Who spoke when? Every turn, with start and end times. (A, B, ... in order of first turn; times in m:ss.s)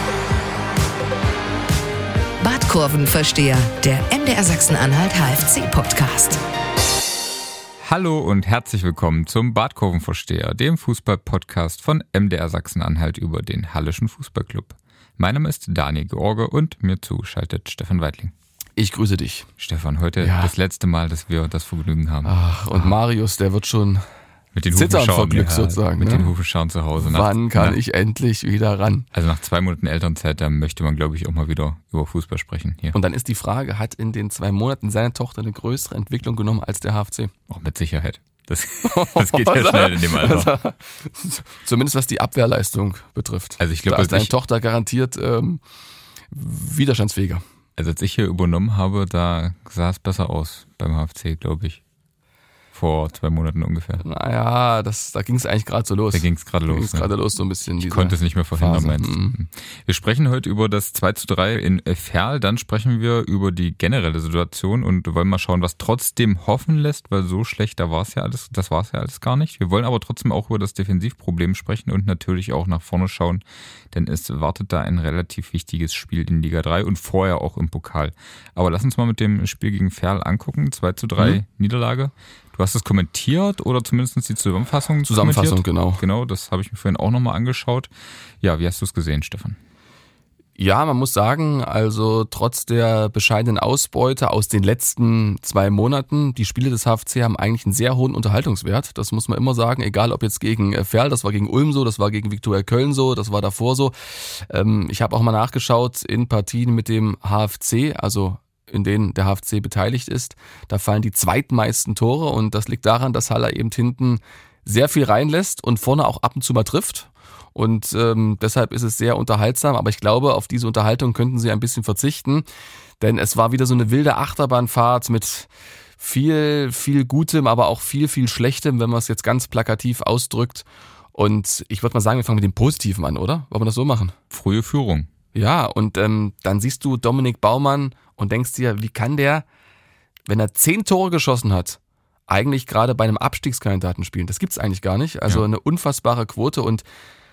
0:02.4-0:06.4 A
0:07.9-0:18.3 B
0:18.8-0:19.5 C
0:19.6-0:23.0 B
0:20.2-0:20.5 C
0:22.2-0:24.0 C
0:24.5-0:27.8 B
0:24.7-0:26.3 C
0:27.0-0:29.1 C
0:29.1-0:33.0 B
0:32.9-0:37.3 C
0:37.5-0:40.6 B
0:38.8-0:45.6 C
0:43.6-0:44.3 B
0:46.3-0:47.4 C
0:47.8-0:51.8 B
0:52.7-0:54.0 B
0:54.0-0:59.4 C
0:56.1-0:57.1 B
0:57.8-1:29.6 B
1:25.0-1:26.0 C
1:30.6-2:02.4 C
2:03.0-2:05.5 C
2:06.0-2:14.1 C
2:14.3-2:15.1 B
2:15.4-2:19.4 C
2:20.3-2:26.8 C